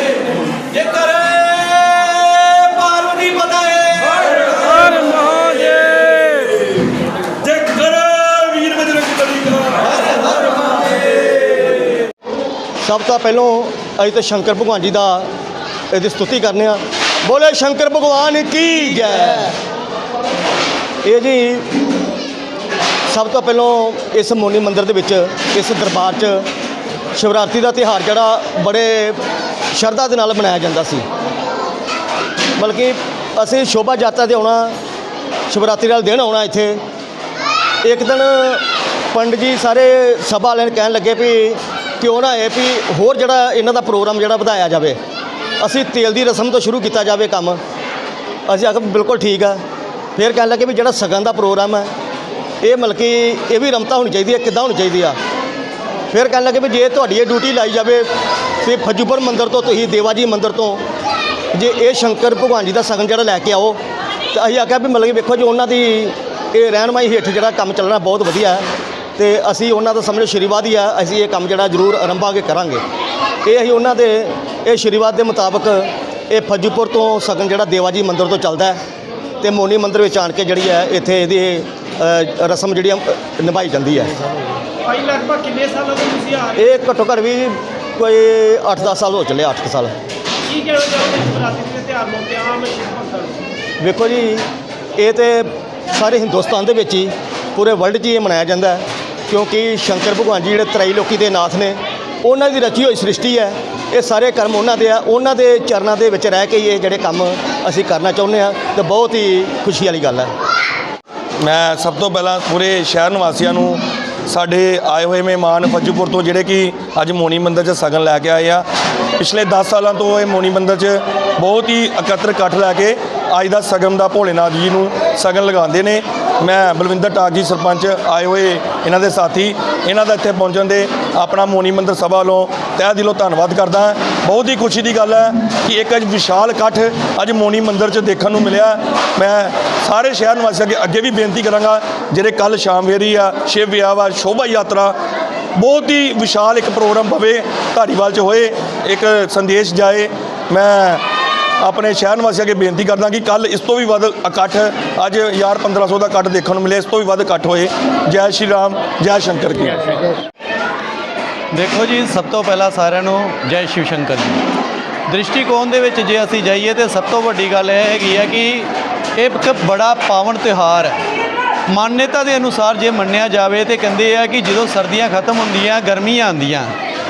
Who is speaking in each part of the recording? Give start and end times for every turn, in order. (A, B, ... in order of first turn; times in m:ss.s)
0:00.6-0:05.4 A
0:05.9-0:06.4 B
0:07.4-0:09.8 B
0:10.0-0:10.9 A
0:12.8-0:15.3 C
0:15.9-0:19.5 C
0:21.0-0:21.7 C
0:23.1-0:26.4 C
0:27.2-0:29.2 C
0:29.7-0:31.0 C
0:32.6-0:34.8 C
0:35.5-0:36.8 C
0:37.8-0:45.0 C
0:45.6-0:47.6 C
0:48.5-0:49.6 C
0:50.2-0:51.9 C
0:52.6-0:55.2 C
0:56.1-0:58.1 C
0:58.6-1:00.8 C
1:01.5-1:03.8 C
1:04.3-1:08.6 C
1:09.2-1:12.8 C
1:13.4-1:18.8 C
1:19.4-1:24.2 C
1:24.9-1:26.5 D
1:26.5-1:29.9 C
1:30.5-1:33.4 D
1:33.8-1:34.4 C
1:35.0-1:50.3 C
1:51.4-1:58.6 B
1:59.2-2:24.9 B
2:25.6-2:31.0 B
2:31.6-2:39.9 B
2:41.5-2:44.4 A
2:45.1-2:51.0 A
2:51.7-2:56.7 A